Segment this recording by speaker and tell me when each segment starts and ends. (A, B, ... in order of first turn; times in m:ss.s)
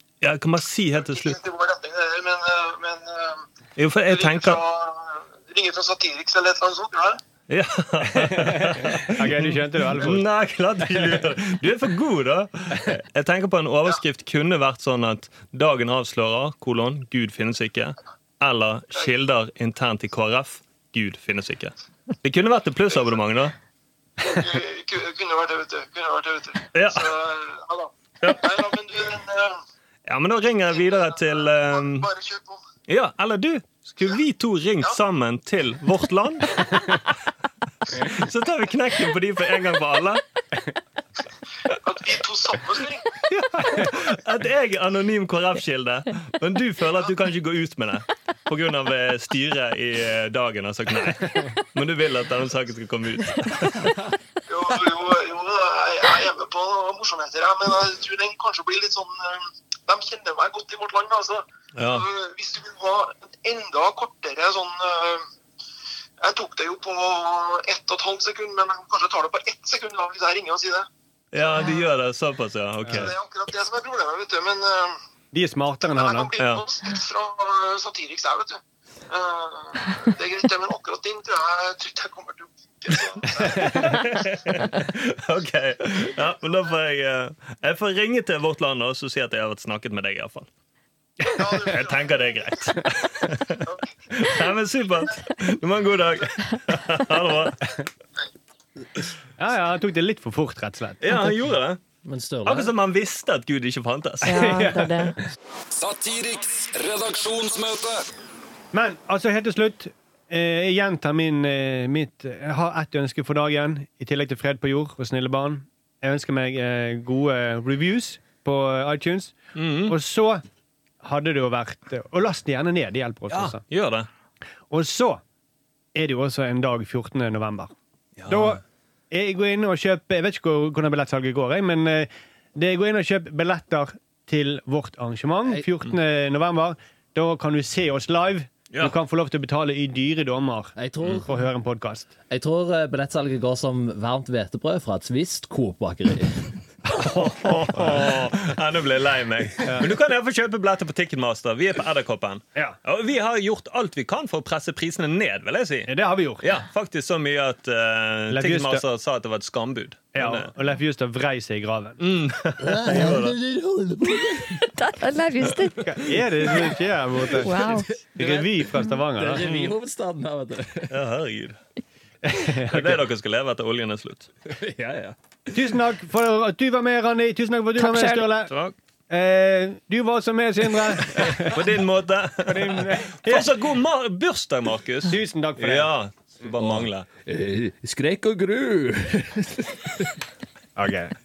0:00.2-0:01.4 A
0:01.0-0:03.5 B
0:03.8-0:04.6 A
0:04.1-0:07.2 B
0:07.5-0:23.6 A
0:08.2-0:10.2 C
0:24.2-0:29.6 B
0:26.7-0:27.2 A
0:28.2-0:28.5 A
0:30.1-0:32.1 A
0:30.7-0:32.6 B
0:32.9-0:37.0 A
0:37.9-0:40.2 A
0:41.8-0:43.1 B
0:43.3-0:54.1 A
0:54.5-1:05.3 B
1:01.8-1:02.1 A
1:06.2-1:11.7 B
1:11.3-1:13.1 A
1:12.8-1:13.1 C
1:12.9-1:15.0 B
1:15.3-1:16.3 C
1:15.8-1:24.2 B
1:16.4-1:16.6 A
1:22.9-1:30.5 A
1:31.2-1:37.6 A
1:31.3-1:32.7 B
1:39.4-1:41.3 C
1:41.0-1:41.8 A
1:42.0-1:42.7 D
1:42.4-1:44.4 A
1:44.2-1:45.2 E
1:44.2-1:45.3 C
1:45.7-1:48.1 F
1:48.7-1:59.4 C
1:59.6-2:00.0 A
1:59.9-2:00.4 C
2:01.0-2:03.6 C
2:03.3-2:04.1 A
2:04.7-2:05.2 C
2:05.9-2:07.7 C
2:08.2-2:08.6 A
2:08.3-2:22.1 C
2:18.7-2:19.0 A
2:20.8-2:21.4 D
2:22.3-2:26.5 D
2:27.0-2:28.1 C
2:27.0-2:40.5 A
2:29.6-2:29.9 C
2:35.9-2:36.5 C
2:38.3-2:38.8 C
2:40.2-2:42.0 C
2:42.0-2:43.4 A
2:42.6-2:44.7 D
2:44.6-2:46.0 E
2:45.8-2:49.4 C
2:47.4-2:47.9 E
2:47.5-2:50.9 D
2:49.4-2:49.7 A
2:50.9-2:51.6 A
2:52.2-2:53.0 C
2:52.7-2:54.3 A
2:54.5-2:55.6 D
2:55.5-2:58.5 C
2:57.8-2:58.3 E
2:58.5-2:58.8 A
2:59.1-3:01.6 C
3:01.3-3:07.1 A
3:02.5-3:03.5 C
3:05.1-3:05.9 C
3:06.6-3:10.1 D
3:10.8-3:11.2 C